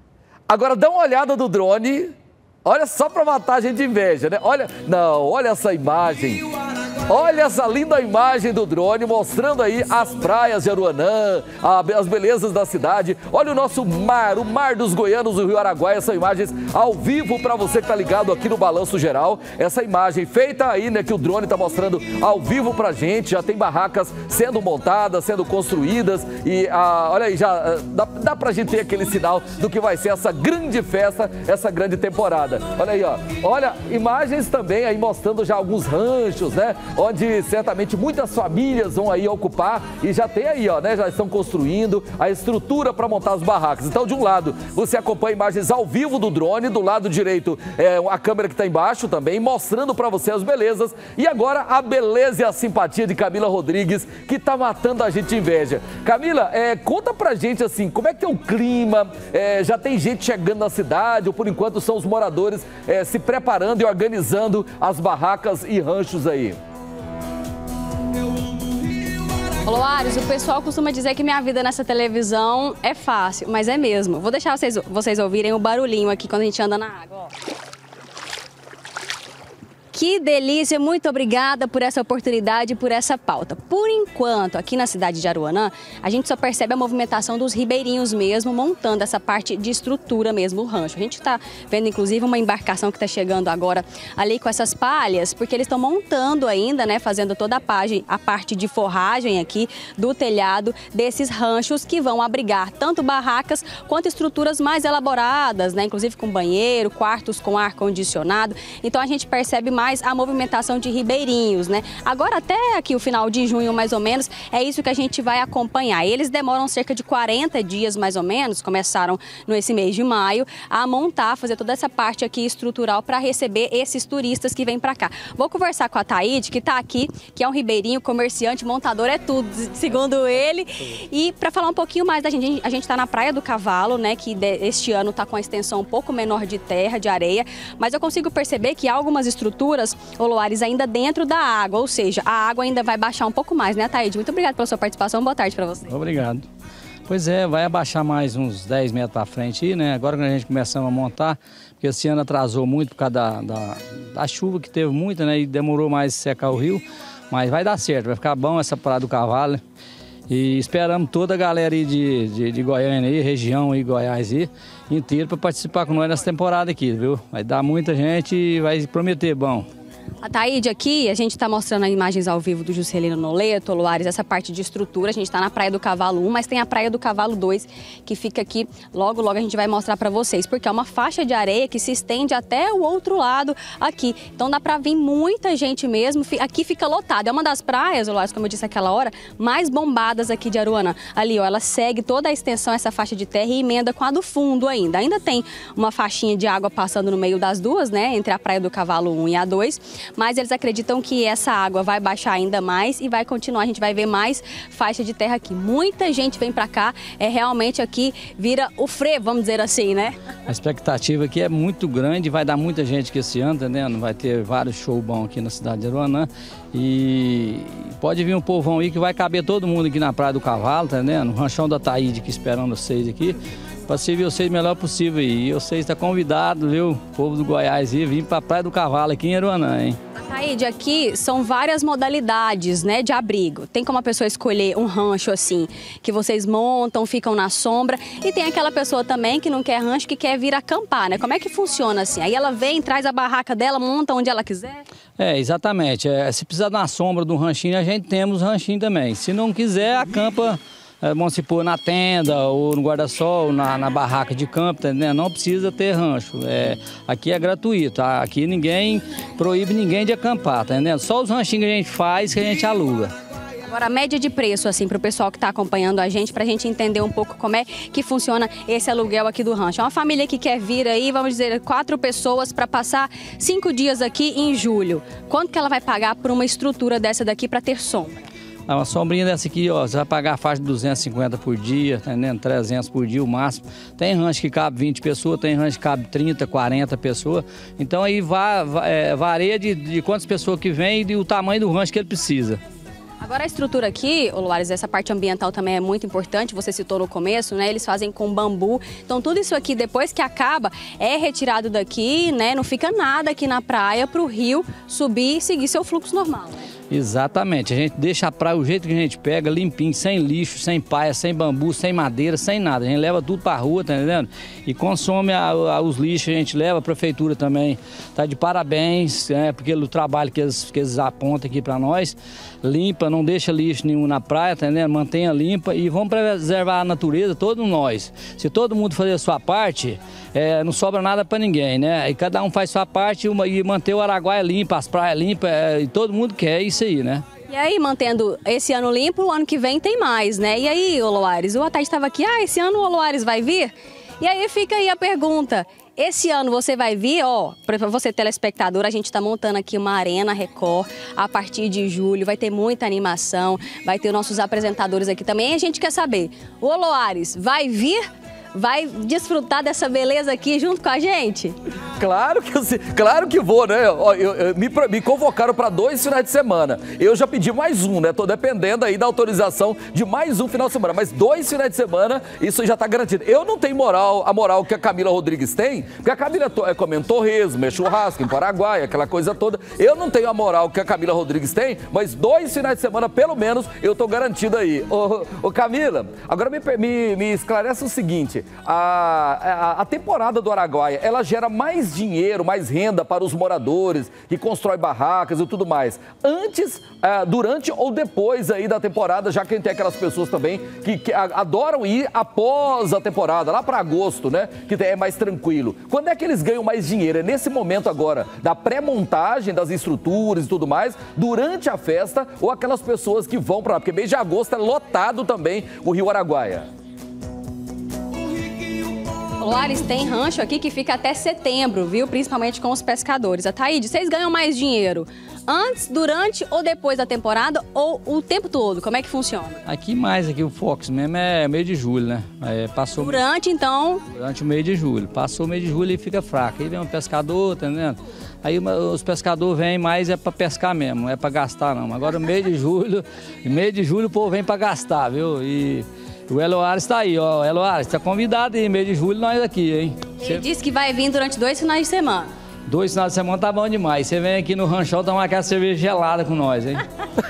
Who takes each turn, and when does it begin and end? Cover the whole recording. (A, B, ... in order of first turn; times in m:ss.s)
0:00.5-0:02.1 A
0:02.6-0:06.4 A
0:07.1-1:06.6 A
1:09.6-1:17.3 B
1:19.9-2:25.9 B
2:25.9-2:26.4 C
2:27.1-2:39.6 C
2:40.3-2:49.7 C
2:50.2-3:30.2 B
3:30.5-3:43.4 C
3:43.9-3:50.0 C
3:50.2-4:04.8 B
4:05.2-4:23.1 C
4:23.6-4:38.2 B
4:38.7-4:52.6 C
4:53.2-5:06.6 B
5:06.9-5:37.2 C
5:37.5-5:58.0 B
5:58.5-6:01.5 B
6:02.0-6:56.7 A
6:59.4-7:09.6 B
7:09.6-7:13.2 C
7:12.9-7:14.0 B
7:14.1-7:30.4 C
7:30.2-7:32.3 B
7:32.7-7:36.8 C